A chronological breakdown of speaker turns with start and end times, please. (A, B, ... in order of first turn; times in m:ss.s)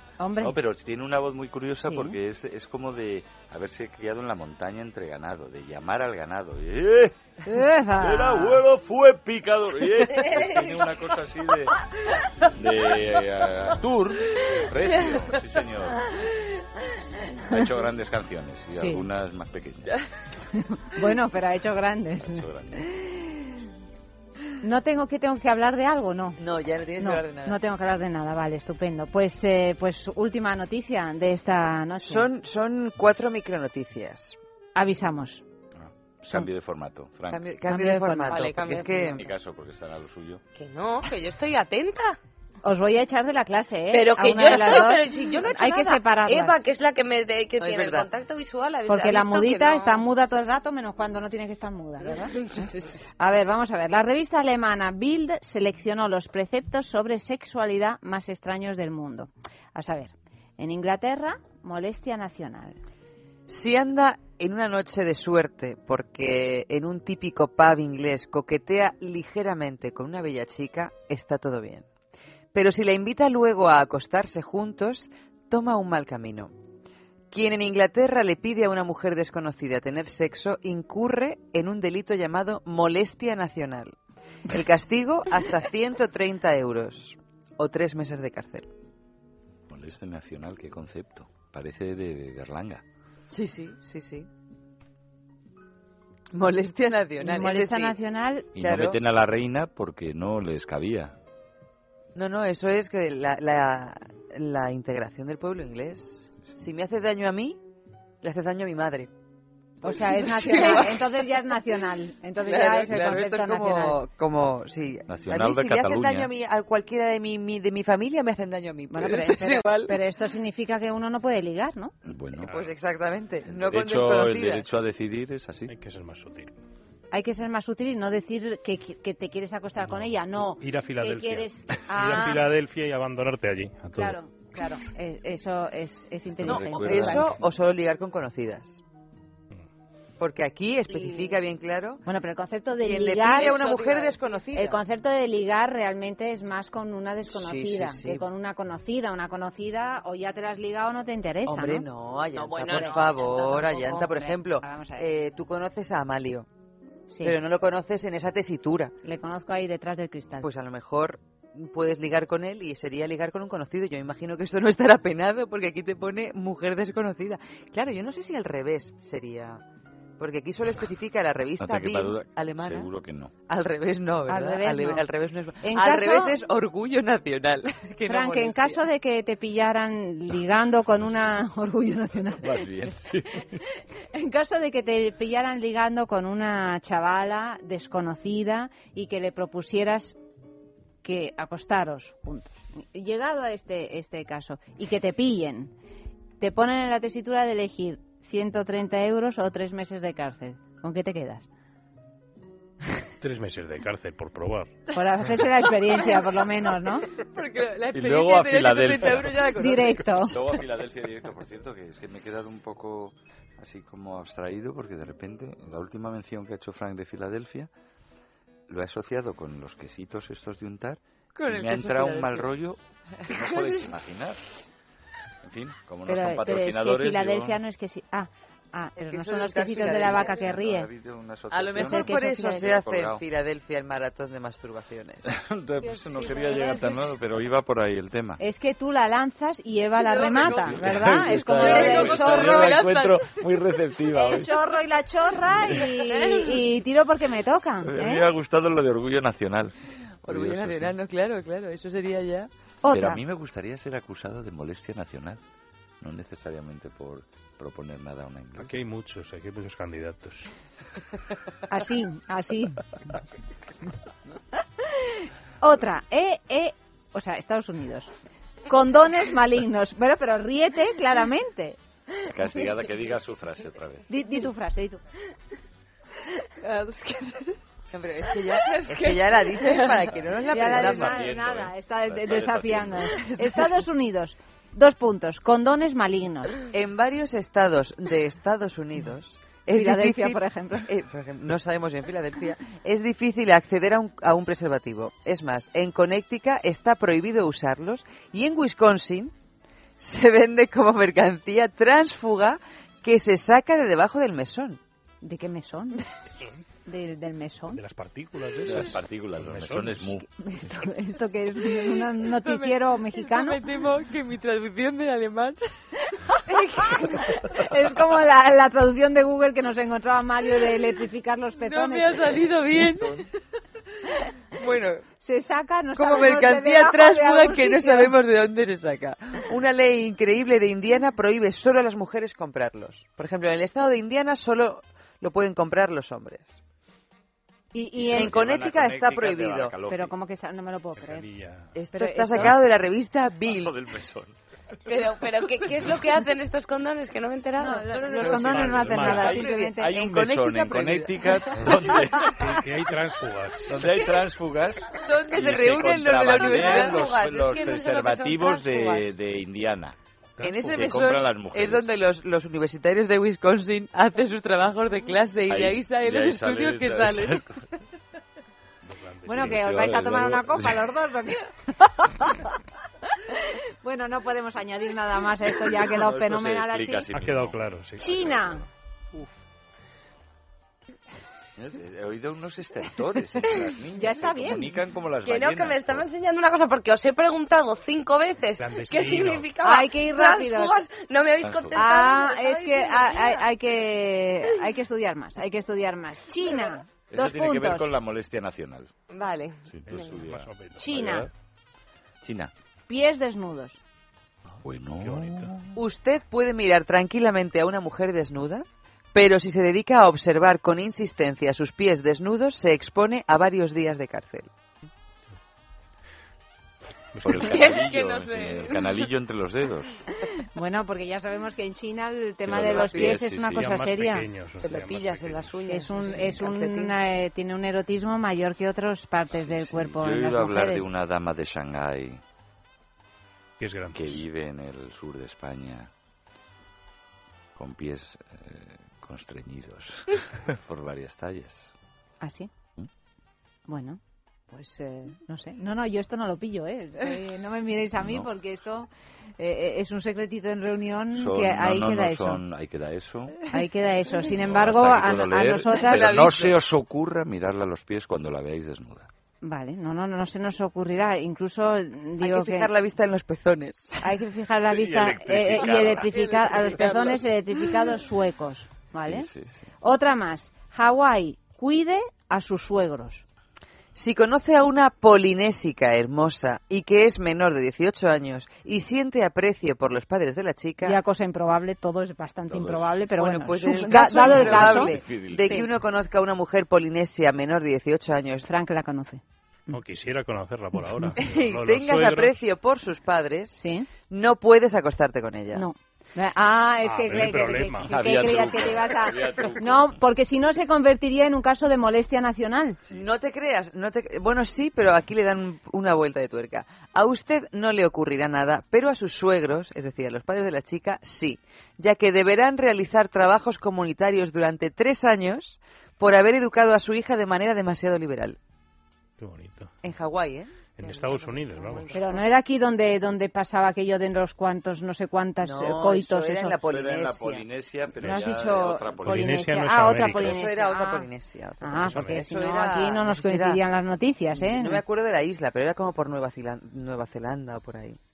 0:00.2-0:00.6 A
0:00.4-0:07.2 B
0:01.8-0:02.2 A
0:07.4-0:08.6 A
0:08.0-0:11.7 B
0:12.6-0:16.0 B
0:17.4-0:20.0 B
0:18.7-0:19.0 A
0:20.5-0:23.2 A
0:22.2-0:22.9 B
0:24.6-0:26.4 A
0:26.4-0:27.6 C
0:27.0-0:32.3 A
0:32.0-0:34.4 C
0:34.8-0:35.4 A
0:35.8-0:37.5 B
0:37.3-0:39.3 C
0:37.6-0:38.6 A
0:38.3-0:39.3 D
0:39.2-0:40.4 B
0:40.6-0:42.2 D
0:42.6-0:46.6 A
0:43.9-0:50.0 D
0:47.6-0:48.1 C
0:48.9-0:52.5 A
0:52.0-0:53.0 D
0:53.2-1:02.8 A
1:03.5-1:11.9 C
1:12.5-1:16.5 C
1:17.3-1:24.0 C
1:24.5-1:28.7 C
1:29.7-1:32.8 B
1:33.3-1:34.3 C
1:36.3-1:38.0 C
1:37.2-1:38.5 A
1:38.6-1:41.1 B
1:38.6-1:39.0 C
1:42.1-1:47.6 C
1:48.2-1:49.1 C
1:49.8-1:51.1 C
1:49.8-1:54.0 A
1:52.4-2:00.0 C
1:55.1-1:56.3 B
1:58.9-2:01.9 A
2:02.0-2:02.5 B
2:02.5-2:02.7 E
2:02.5-2:04.6 C
2:03.5-2:05.7 B
2:05.7-2:06.5 E
2:07.1-2:12.4 A
2:10.6-2:14.2 E
2:13.9-2:17.4 A
2:16.3-2:17.3 B
2:16.4-2:18.8 C
2:20.2-2:22.0 C
2:22.0-2:23.8 A
2:22.8-2:24.8 C
2:23.4-2:24.3 D
2:24.5-2:31.8 A
2:27.3-2:28.3 C
2:31.4-2:36.4 C
2:32.3-2:33.6 D
2:32.6-2:35.0 A
2:37.1-2:37.4 A
2:37.2-2:38.9 C
2:39.0-2:40.5 A
2:40.4-2:49.6 C
2:50.2-2:52.9 C
2:51.6-2:53.3 B
2:53.4-2:58.8 C
2:54.3-2:55.1 A
2:55.6-2:56.4 A
2:58.1-3:03.4 A
3:02.4-3:03.6 B
3:04.1-3:10.2 A
3:11.0-3:15.7 A
3:16.4-3:21.5 A
3:23.2-3:24.7 E
3:24.9-3:27.1 A
3:26.0-3:26.3 C
3:27.1-3:30.2 C
3:27.9-3:29.5 B
3:29.6-3:30.4 A
3:30.2-3:37.7 B
3:38.7-3:44.5 B
3:41.3-3:42.5 C
3:43.2-3:43.8 C
3:45.4-3:47.6 B
3:46.0-3:50.9 A
3:49.0-3:50.5 C
3:50.2-3:52.1 B
3:51.5-3:55.3 C
3:51.7-3:52.8 A
3:52.6-3:53.2 B
3:55.3-3:58.4 B
3:55.9-3:57.1 A
3:58.4-4:02.8 A
4:00.0-4:03.4 C
4:00.3-4:04.6 B
4:04.1-4:08.3 A
4:07.8-4:09.7 B
4:10.2-4:12.5 C
4:10.3-4:10.9 B
4:12.8-4:13.2 A
4:12.9-4:15.4 B
4:16.0-4:18.8 B
4:18.6-4:20.5 E
4:21.7-4:22.8 A
4:25.6-4:28.1 A
4:28.7-4:31.8 A
4:32.3-4:34.1 B
4:34.1-4:35.0 A
4:36.6-4:37.5 D
4:37.9-4:41.2 C
4:38.5-4:40.1 D
4:40.5-4:46.6 A
4:40.6-4:43.0 B
4:43.1-4:43.8 C
4:46.7-4:59.3 C
4:49.7-4:50.9 A
5:00.0-5:04.8 C
5:05.2-5:06.0 A
5:06.8-5:07.8 A
5:07.7-5:10.1 E
5:08.6-5:10.3 B
5:10.2-5:13.6 A
5:11.8-5:15.6 C
5:16.3-5:22.4 A
5:21.6-5:23.2 C
5:24.5-5:25.0 C
5:25.2-5:28.2 A
5:26.0-5:36.6 C
5:37.7-5:38.4 A
5:37.9-5:40.1 B
5:38.1-5:39.8 C
5:39.8-5:41.3 A
5:41.0-5:41.7 E
5:41.7-5:43.7 C
5:41.9-5:42.6 A
5:43.4-5:44.4 B
5:44.8-5:48.7 D
5:47.6-5:50.0 A
5:48.2-5:49.5 E
5:48.9-5:52.6 B
5:49.0-5:51.4 C
5:51.6-5:53.9 E
5:53.7-5:59.9 B
5:55.0-5:57.2 C
5:56.3-5:59.1 D
6:00.4-6:00.9 E
6:00.4-6:07.5 C
6:00.6-6:01.9 B
6:05.5-6:07.5 B
6:08.9-6:09.6 E
6:09.3-6:12.5 A
6:09.4-6:10.8 B
6:13.3-6:17.0 A
6:15.8-6:18.5 B
6:17.1-6:19.3 E
6:18.0-6:18.6 A
6:21.6-6:26.1 B
6:23.9-6:24.8 A
6:25.2-6:33.4 D
6:28.6-6:29.5 E
6:29.6-6:30.8 A
6:31.4-6:31.8 B
6:31.7-6:37.9 A
6:37.1-6:38.9 B
6:39.1-6:40.2 D
6:39.7-6:40.5 B
6:39.8-6:41.3 E
6:40.8-6:41.3 A
6:42.2-6:42.5 B
6:42.9-6:43.8 A
6:44.6-6:45.7 B
6:45.0-6:45.6 E
6:45.7-6:54.5 C
6:57.1-6:57.8 E
6:57.2-6:59.9 B
6:57.4-6:59.0 D
7:00.4-7:04.3 A
7:02.4-7:03.6 B
7:02.7-7:03.0 C
7:02.8-7:06.4 E
7:04.6-7:06.9 D
7:05.7-7:10.9 A
7:09.3-7:12.2 B
7:13.6-7:14.2 E
7:13.9-7:15.9 B
7:17.6-7:21.7 B
7:22.2-7:22.5 A
7:23.7-7:32.4 A
7:28.0-7:28.3 B
7:31.1-7:33.4 B
7:33.5-7:36.2 A
7:34.4-7:39.1 B
7:35.7-7:36.6 C
7:39.4-7:42.7 A
7:42.2-7:44.0 C
7:44.0-7:49.3 A
7:44.7-7:46.1 B
7:45.6-7:47.2 C
7:49.0-7:49.7 B
7:49.8-7:53.2 A
7:53.9-8:01.0 C
8:00.8-8:05.7 A
8:02.5-8:03.0 B
8:03.1-8:08.5 C
8:04.0-8:05.6 B
8:08.4-8:09.8 A
8:09.7-8:12.4 E
8:11.2-8:15.7 C
8:13.6-8:13.9 A
8:15.5-8:22.8 A
8:16.8-8:18.5 E
8:17.9-8:20.0 B
8:22.9-8:38.4 C
8:39.2-8:39.7 E
8:39.8-8:40.6 C
8:40.8-8:42.0 E
8:40.8-8:42.2 D
8:41.9-8:46.6 A
8:45.4-8:47.5 C
8:46.6-8:49.6 B
8:48.0-8:51.1 A
8:49.0-8:50.4 E
8:50.2-8:53.6 C
8:51.6-8:54.8 A
8:51.8-8:52.3 E
8:54.3-8:58.0 C